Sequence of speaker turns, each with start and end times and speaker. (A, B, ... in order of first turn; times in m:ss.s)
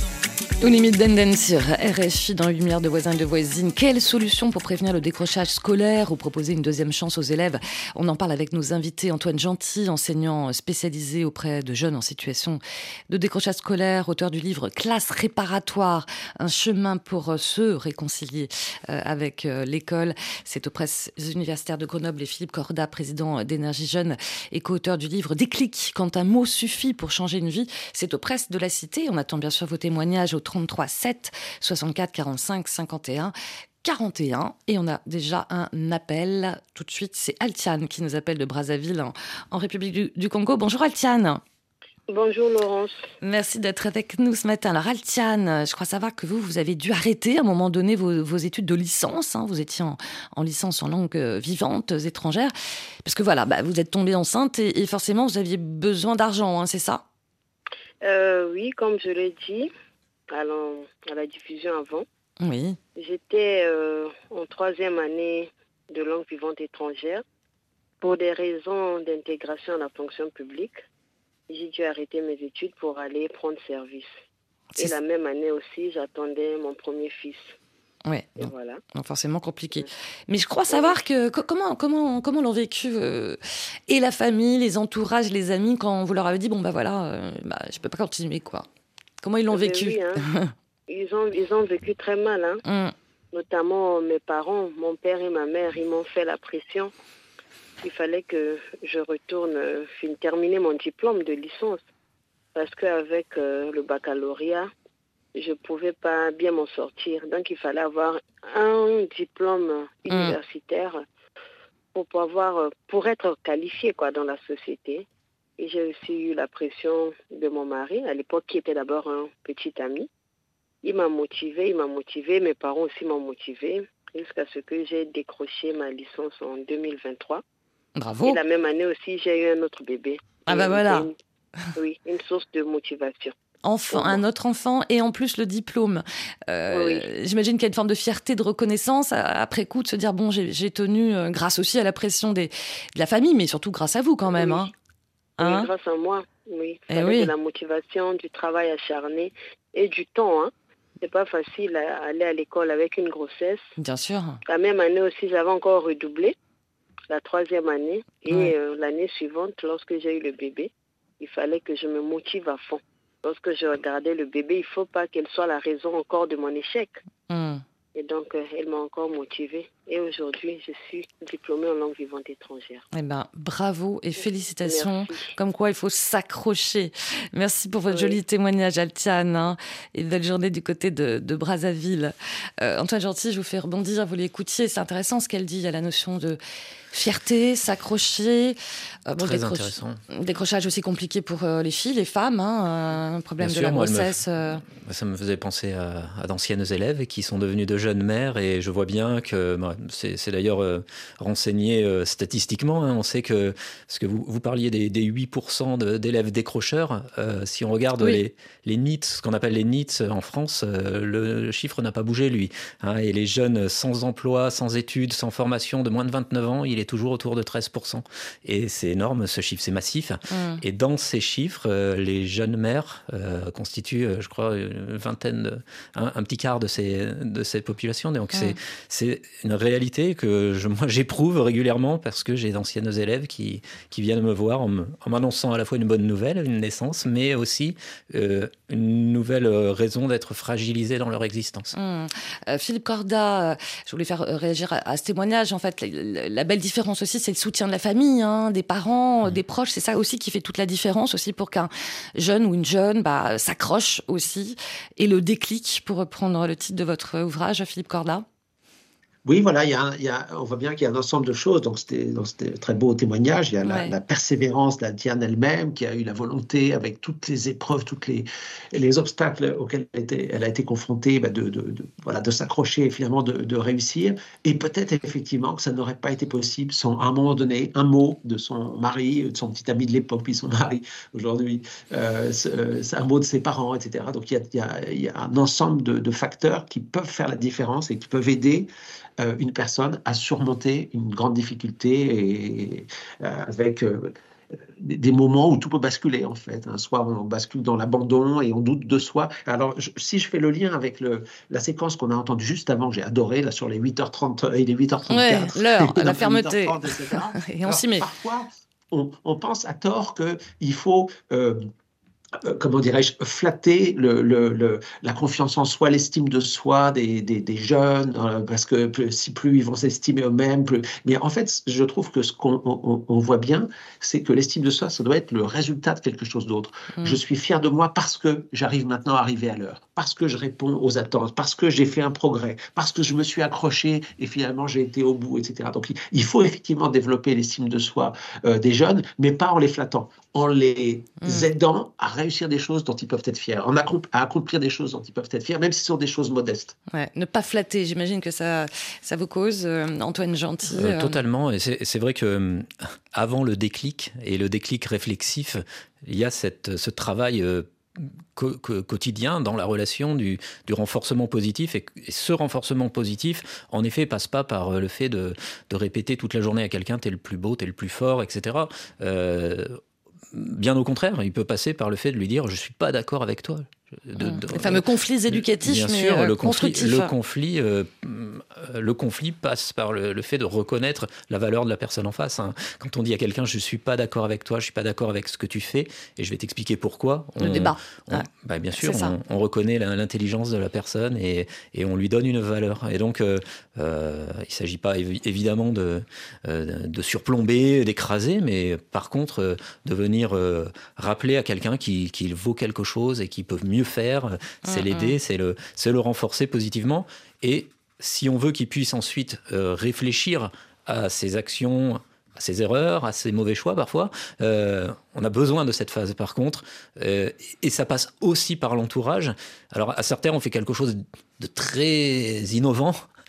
0:00.6-0:41.4 A
0:42.1-0:43.0 B
0:43.2-0:52.5 A
0:53.0-0:57.0 A
0:58.0-0:59.7 B
1:00.3-1:02.0 B
1:02.4-1:02.8 A
1:03.0-1:07.2 B
1:08.0-1:10.8 B
1:11.5-1:14.1 B
1:14.8-1:17.5 B
1:18.0-1:28.7 A
1:18.4-1:18.8 B
1:20.7-1:21.0 B
1:29.2-1:30.5 A
1:29.5-1:30.2 B
1:30.9-1:32.6 B
1:32.6-1:32.9 A
1:33.3-1:36.9 B
1:37.8-1:41.8 B
1:42.5-1:44.7 B
1:45.3-1:51.0 B
1:50.1-1:50.3 A
1:51.9-1:55.0 B
1:55.6-2:00.1 B
2:00.8-2:07.4 B
2:08.0-2:08.4 A
2:08.2-2:11.1 B
2:10.5-2:11.1 A
2:11.8-2:13.3 B
2:13.6-2:24.7 A
2:13.9-2:14.2 B
2:16.7-2:17.0 B
2:24.2-2:24.7 B
2:25.4-2:25.7 A
2:25.4-2:33.6 B
2:26.9-2:27.3 A
2:33.8-2:34.4 A
2:34.4-2:36.3 B
2:37.1-2:47.0 B
2:47.3-2:47.6 A
2:47.9-2:52.8 B
2:52.9-3:06.4 A
2:54.6-2:55.3 B
2:57.9-2:58.2 B
3:06.9-3:08.6 A
3:09.1-3:14.6 A
3:09.2-3:10.0 C
3:13.4-4:01.7 C
3:40.3-3:40.6 A
4:01.7-4:18.2 A
4:19.2-4:48.7 D
4:23.6-4:23.9 A
4:49.2-4:54.1 D
4:54.8-5:11.6 D
5:05.1-5:08.1 A
5:12.4-5:46.7 D
5:41.2-5:41.5 A
5:46.9-5:51.2 A
5:50.7-6:09.8 C
6:10.3-7:03.0 C
6:14.2-6:17.1 A
6:27.4-6:28.3 A
6:28.8-6:29.1 A
6:44.6-6:45.2 A